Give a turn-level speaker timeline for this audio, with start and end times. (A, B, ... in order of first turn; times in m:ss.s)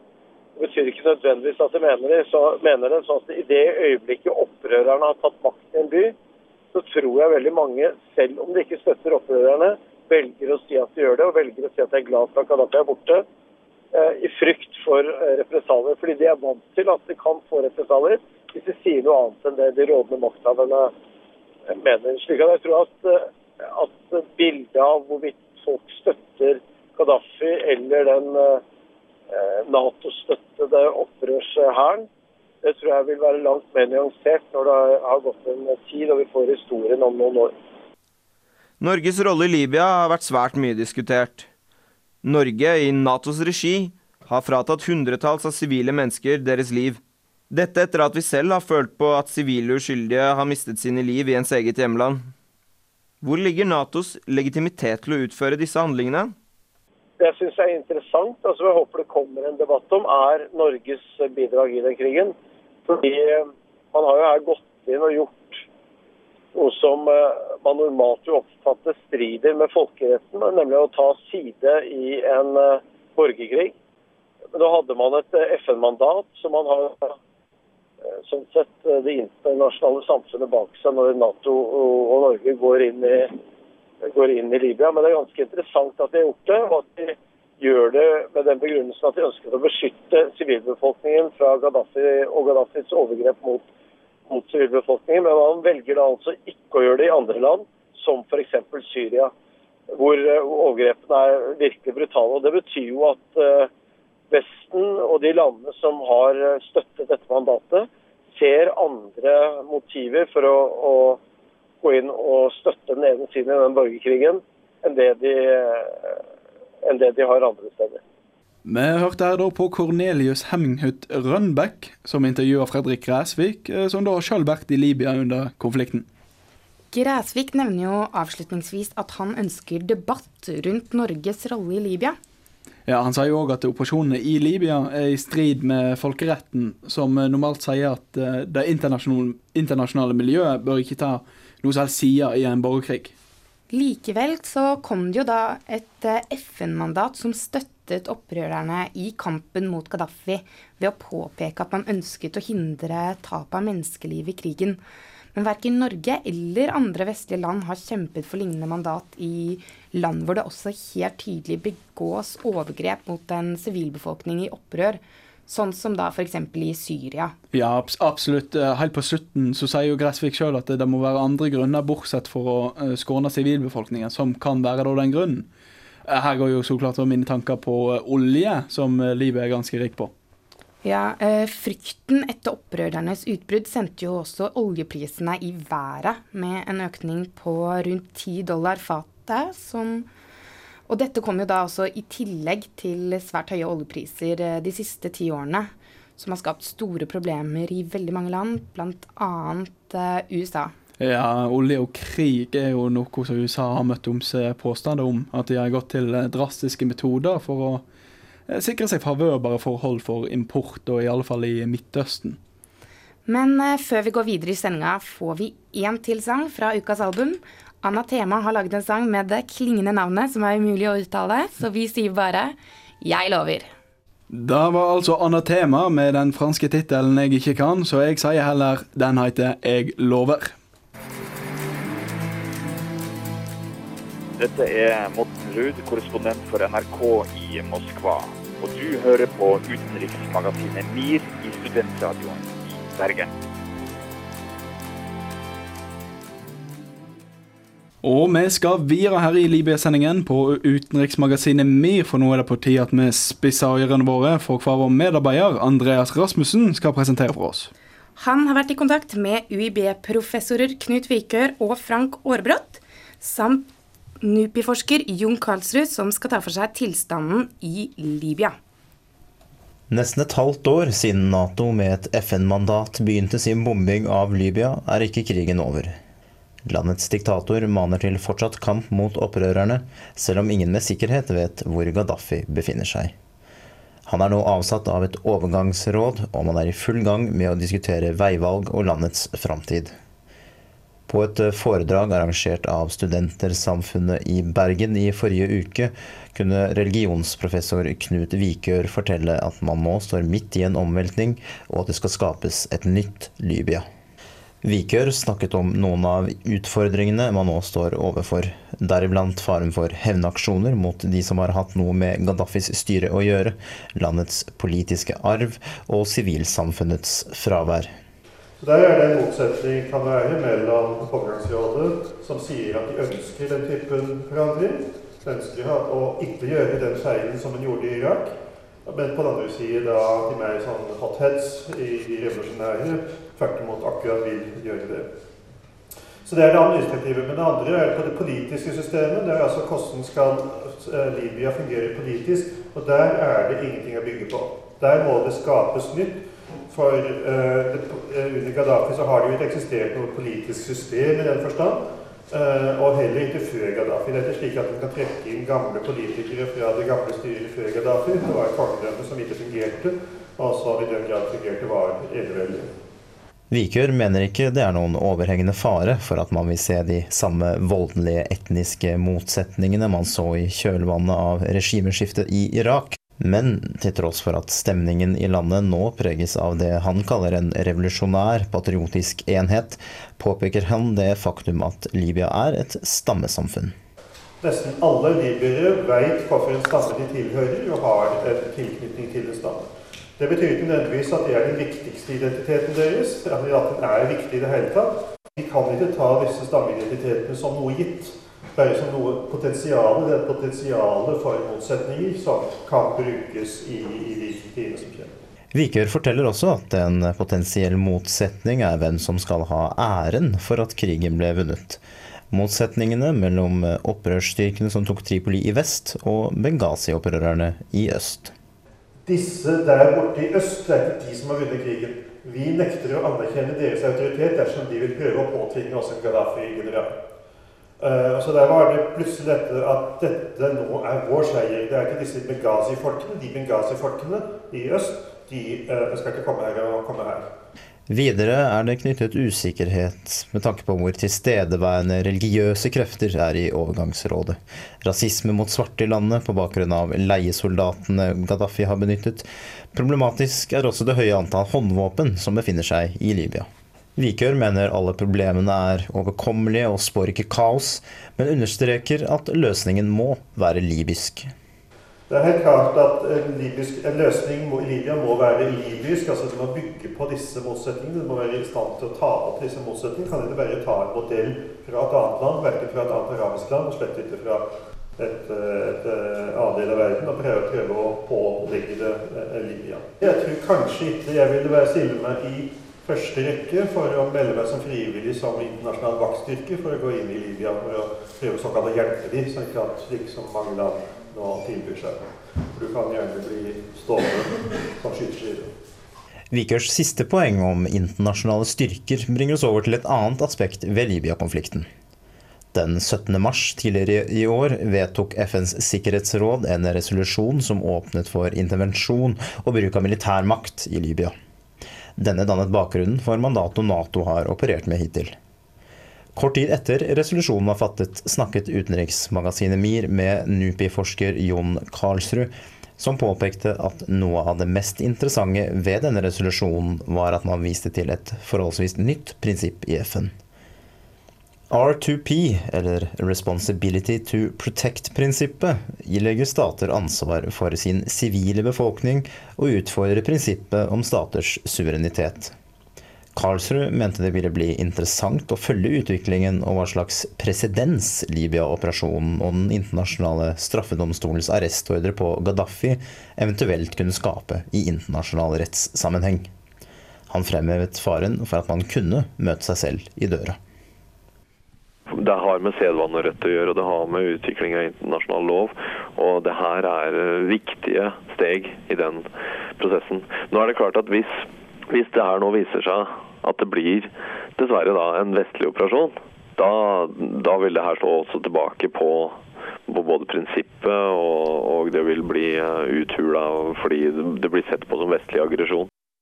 0:00.6-0:06.1 A
0:06.7-0:13.2 A
0:13.9-0:20.9 A
0:21.7-0:28.6 A
0:29.3-0:32.1 A
0:32.6-0:37.5 A
0:38.8-0:41.5 B
0:42.2-0:47.0 B
0:47.5-0:52.3 B
0:53.2-0:56.3 B
0:57.2-1:02.3 A
1:02.9-1:05.6 A
1:06.5-1:13.7 A
1:14.5-1:17.1 A
1:18.2-1:23.4 A
1:24.1-1:33.6 A
1:34.3-1:39.3 A
1:39.9-1:43.7 A
1:44.3-1:51.2 A
1:51.8-1:56.2 A
1:56.8-1:58.0 A
1:58.6-2:06.1 C
2:06.9-2:12.2 D
2:12.9-2:23.1 C
2:23.7-2:34.8 D
2:35.3-2:47.3 D
2:47.5-2:55.5 C
2:56.1-3:00.1 C
3:00.8-3:10.0 D
3:10.9-3:20.7 D
3:21.0-3:27.8 C
3:28.5-3:32.4 C
3:33.2-3:43.7 D
3:44.3-3:50.5 C
3:54.4-4:03.3 E
4:08.0-4:17.7 C
4:18.2-4:23.7 D
4:24.2-4:28.5 D
4:29.9-4:36.0 F
4:36.6-4:43.1 F
4:44.0-4:49.9 F
4:51.1-5:03.8 F
5:04.6-5:17.9 F
5:18.6-5:28.3 G
5:28.8-5:35.1 G
5:36.2-6:02.7 G
6:03.5-6:23.8 F
6:24.4-6:45.2 G
6:45.5-6:58.3 F
6:59.0-7:06.9 G
7:07.8-7:17.3 G
7:17.9-7:41.3 F
7:42.1-8:15.5 G
8:16.3-8:21.7 F
8:22.5-8:31.1 F
8:32.0-8:35.1 F
8:36.1-8:50.1 F
8:51.5-9:02.3 F
9:03.1-9:16.3 F
9:17.1-9:20.4 F
9:21.9-9:45.7 H